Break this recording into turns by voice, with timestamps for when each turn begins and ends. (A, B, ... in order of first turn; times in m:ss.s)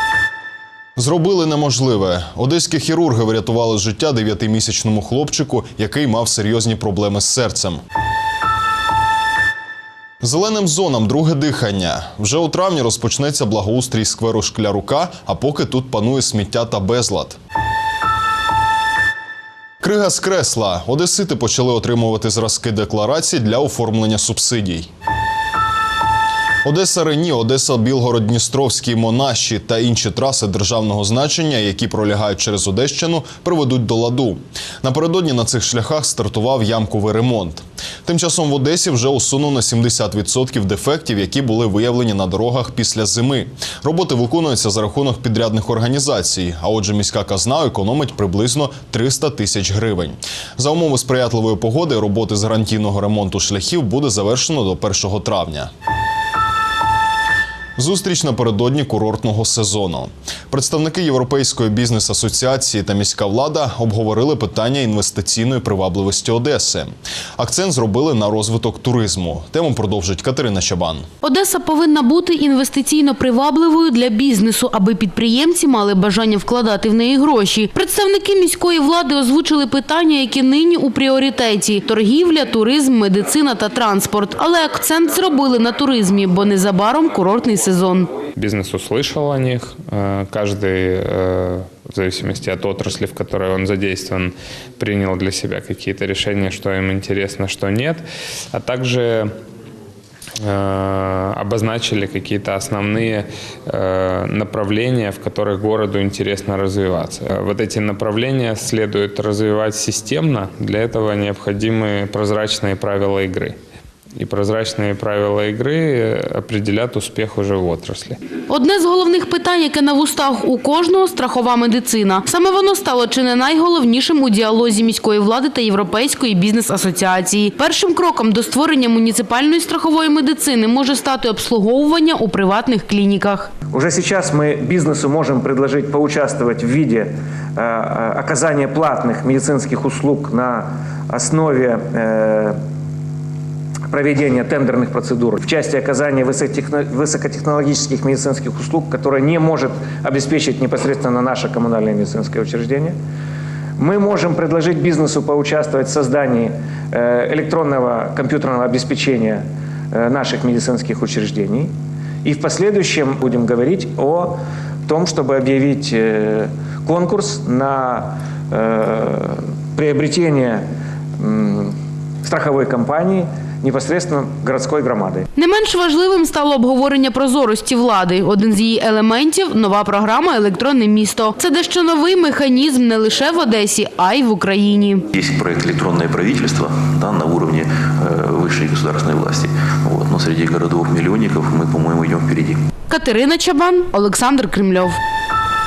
0:01.0-0:07.8 A
0:10.2-0:17.4 A
0:19.8-0:24.9 A
0:26.6-0:55.7 A
0:57.8-1:11.1 A
1:11.2-1:28.2 B
1:28.3-1:39.3 C
1:40.4-1:53.6 C
1:54.2-1:58.2 C
1:58.5-2:13.5 B
2:13.7-2:22.6 D
2:23.9-2:32.9 D
2:33.8-2:39.4 D
2:39.9-2:41.7 D
2:42.2-2:44.4 D
2:44.9-2:50.6 D
2:51.2-2:51.7 D
2:52.2-2:55.3 D
2:55.4-3:05.0 B
3:05.1-3:12.6 E
3:12.9-3:15.0 B